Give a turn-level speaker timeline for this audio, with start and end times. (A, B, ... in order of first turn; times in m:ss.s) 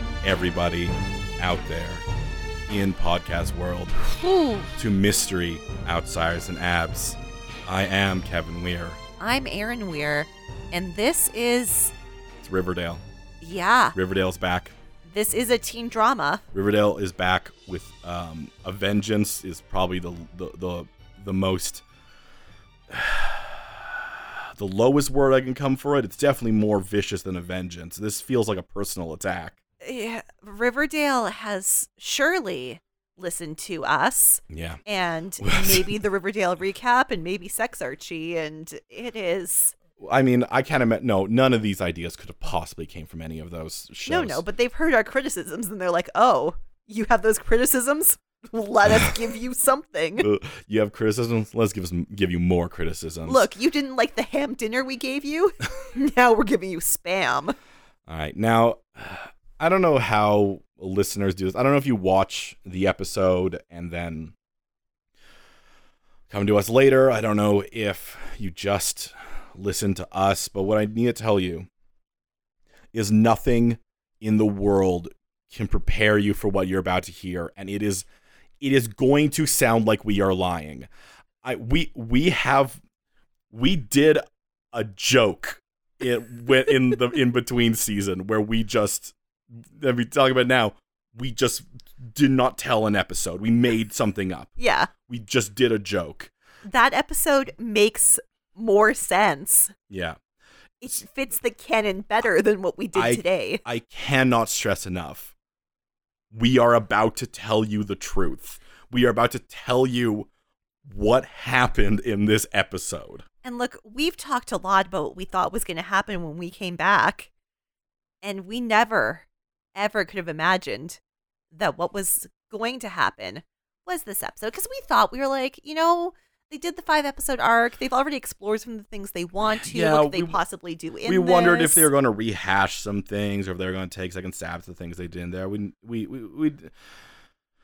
0:00.2-0:02.0 A
0:02.7-0:04.0 A
0:04.1-0:04.7 B
0:04.8-0:09.0 A
0:09.2-0:11.9 B
0:12.4-0:13.0 A
0:13.4-0:14.0 B
0:14.0-0:14.7 A
0:15.1-0:16.4 B
0:16.5-0:21.8 A
0:22.9-0:29.6 A
0:29.8-0:39.8 B
0:34.5-0:34.8 A
0:35.4-0:36.0 A
0:40.0-0:44.4 A
0:44.1-0:50.3 B
0:50.2-0:53.5 A
0:53.2-0:57.6 B
0:58.1-1:04.3 A
1:06.3-1:11.7 A
1:12.9-1:18.1 A
1:18.6-1:20.9 A
1:21.4-1:22.8 A
1:23.5-1:24.2 A
1:24.7-1:34.5 A
1:34.6-1:34.9 B
1:35.1-1:36.3 A
1:36.7-1:39.7 B
1:39.9-1:40.2 A
1:40.8-1:43.6 B
1:43.0-1:45.3 A
1:46.3-1:50.3 A
1:50.9-1:53.2 A
1:53.4-1:57.3 B
1:58.2-2:01.0 B
2:01.5-2:11.9 B
2:09.5-2:10.4 A
2:11.0-2:16.7 A